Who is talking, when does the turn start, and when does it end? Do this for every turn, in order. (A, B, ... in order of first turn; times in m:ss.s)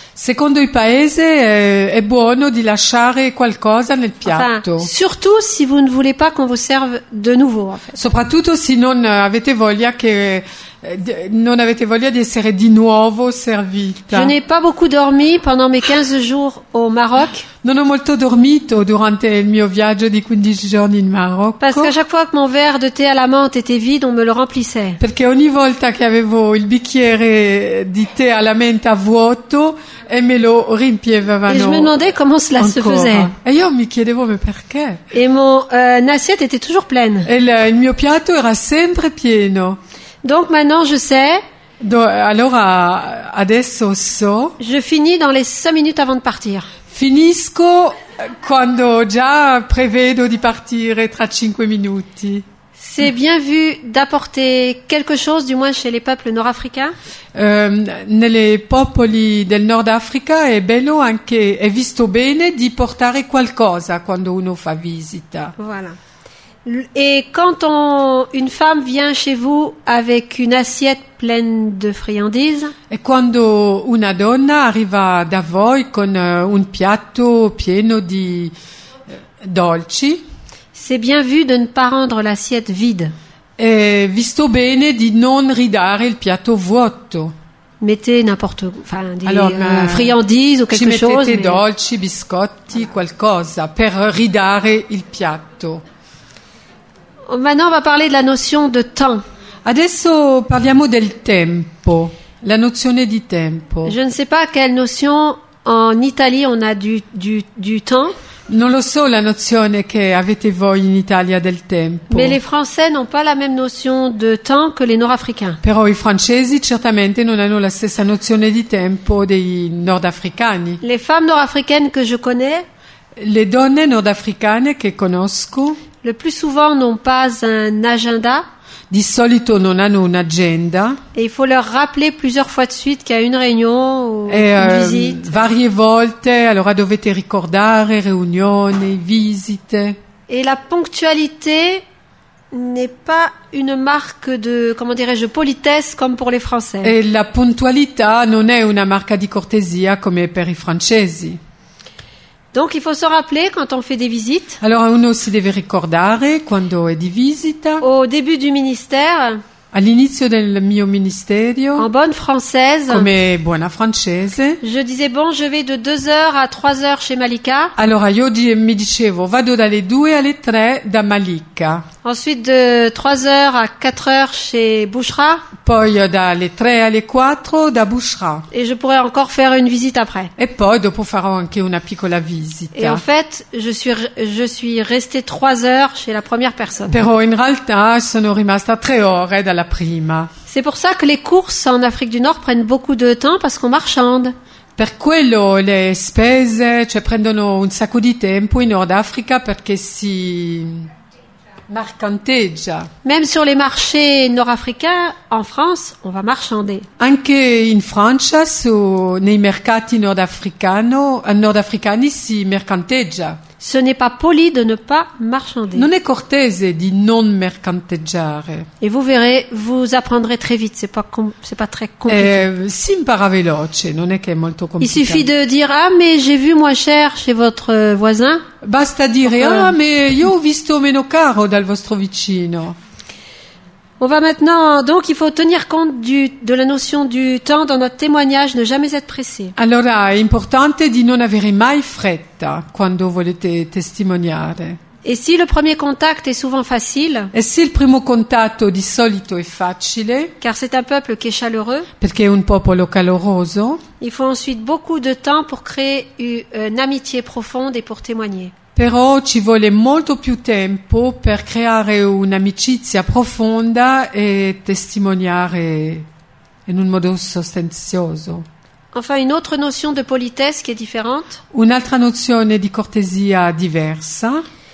0:00.2-0:04.9 A
0:04.2-0:08.0 B
0:07.9-0:14.3 A
0:14.1-0:17.5 B
0:17.6-0:21.9 A
0:21.6-0:25.0 B
0:25.0-0:31.9 A
0:31.5-0:33.3 B
0:32.6-0:35.0 A
0:35.1-0:37.3 B
0:37.2-0:39.8 A
0:40.2-0:41.4 B
0:41.8-0:44.6 A
0:44.6-0:46.7 B
0:46.9-0:52.4 A
0:52.8-0:56.9 B
0:57.3-1:05.5 A
1:05.6-1:06.0 B
1:06.6-1:12.7 B
1:12.9-1:18.5 A
1:19.4-1:20.2 A
1:20.7-1:23.1 B
1:23.6-1:27.3 A
1:27.8-1:31.6 B
1:29.2-1:30.2 A
1:30.7-1:35.8 A
1:37.3-1:39.2 B
1:39.6-1:44.0 A
1:43.8-1:48.1 B
1:48.5-1:52.4 A
1:52.1-1:55.6 B
1:55.6-2:00.8 A
2:00.8-2:02.6 B
2:03.2-2:05.8 A
2:06.0-2:08.4 B
2:08.9-2:11.0 A
2:11.1-2:15.3 B
2:14.3-2:20.0 A
2:20.3-2:21.8 B
2:22.5-2:26.9 B
2:26.8-2:31.4 A
2:32.5-2:34.6 B
2:34.6-2:37.8 A
2:37.8-2:39.4 B
2:39.7-2:41.9 A
2:41.8-2:43.1 B
2:42.9-2:44.6 A
2:44.6-2:47.7 B
2:47.8-2:51.8 A
2:52.0-2:55.5 B
2:55.6-2:58.5 A
2:58.5-3:00.3 B
3:00.4-3:03.0 A
3:02.7-3:07.0 B
3:06.9-3:10.3 A
3:10.5-3:14.3 B
3:14.8-3:20.9 A
3:21.7-3:22.9 A
3:23.0-3:26.9 B
3:27.0-3:33.4 A
3:33.6-3:35.9 B
3:35.8-3:38.7 A
3:38.8-3:42.4 B
3:42.1-3:45.3 A
3:44.8-3:48.4 B
3:48.6-3:52.7 A
3:49.2-3:49.7 B
3:54.0-3:59.5 B
3:59.6-4:04.8 A
4:05.0-4:07.3 B
4:07.3-4:10.3 A
4:10.4-4:11.9 B
4:12.0-4:13.8 A
4:14.0-4:18.5 B
4:18.8-4:26.0 A
4:26.7-4:28.4 A
4:28.9-4:31.4 B
4:31.5-4:34.4 A